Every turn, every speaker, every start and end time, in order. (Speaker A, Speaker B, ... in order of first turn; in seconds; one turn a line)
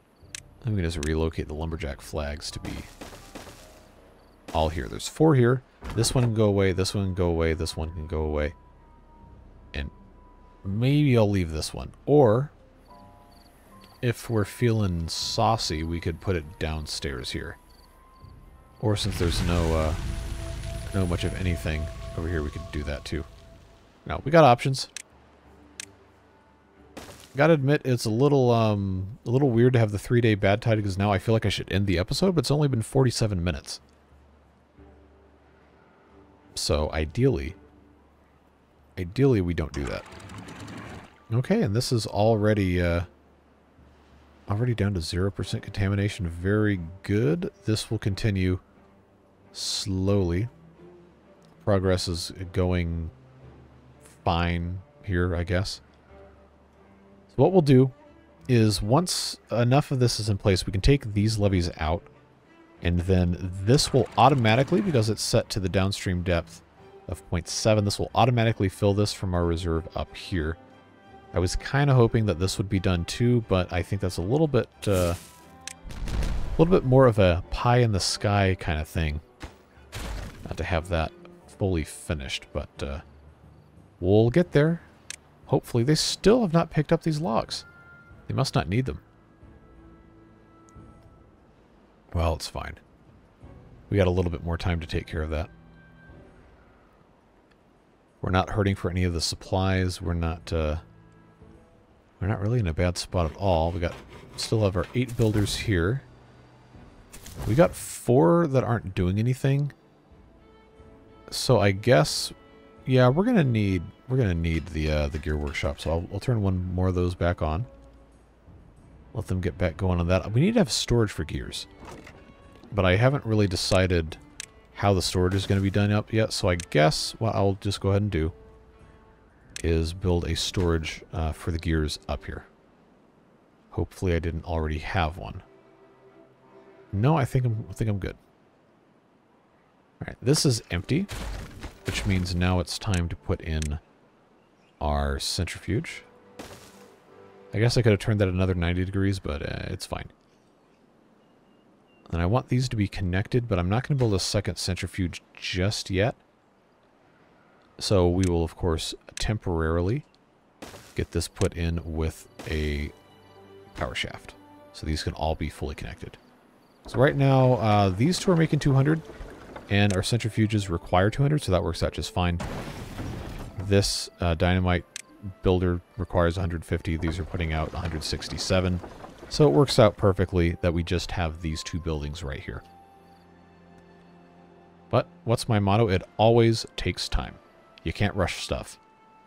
Speaker A: 0.6-2.9
Speaker A: 4.5-8.6
Speaker A: 10.6-12.5
Speaker A: 14.0-17.6
Speaker A: 18.8-20.0
Speaker A: 20.9-23.3
Speaker A: 24.1-24.9
Speaker A: 27.3-33.8
Speaker A: 36.5-37.6
Speaker A: 39.0-40.1
Speaker A: 41.3-43.1
Speaker A: 44.5-48.6
Speaker A: 49.5-50.5
Speaker A: 51.6-53.1
Speaker A: 54.0-55.8
Speaker A: 57.3-58.0
Speaker A: 58.5-62.1
Speaker A: 62.8-70.6
Speaker A: 71.3-75.2
Speaker A: 76.6-79.2
Speaker A: 80.5-83.0
Speaker A: 84.0-84.9
Speaker A: 85.5-87.7
Speaker A: 88.3-89.0
Speaker A: 92.1-92.8
Speaker A: 93.9-95.5
Speaker A: 98.2-100.8
Speaker A: 102.2-106.0
Speaker A: 107.5-109.7
Speaker A: 111.3-112.3
Speaker A: 112.9-117.7
Speaker A: 119.1-121.7
Speaker A: 122.7-124.2
Speaker A: 124.7-128.3
Speaker A: 129.6-132.5
Speaker A: 133.7-135.4
Speaker A: 136.9-138.2
Speaker A: 140.0-141.1
Speaker A: 141.8-143.8
Speaker A: 144.8-146.1
Speaker A: 147.5-150.1
Speaker A: 152.1-156.2
Speaker A: 157.8-160.1
Speaker A: 160.9-162.9
Speaker A: 163.8-166.2
Speaker A: 166.9-169.1
Speaker A: 169.7-172.4
Speaker A: 173.6-182.6
Speaker A: 184.9-188.8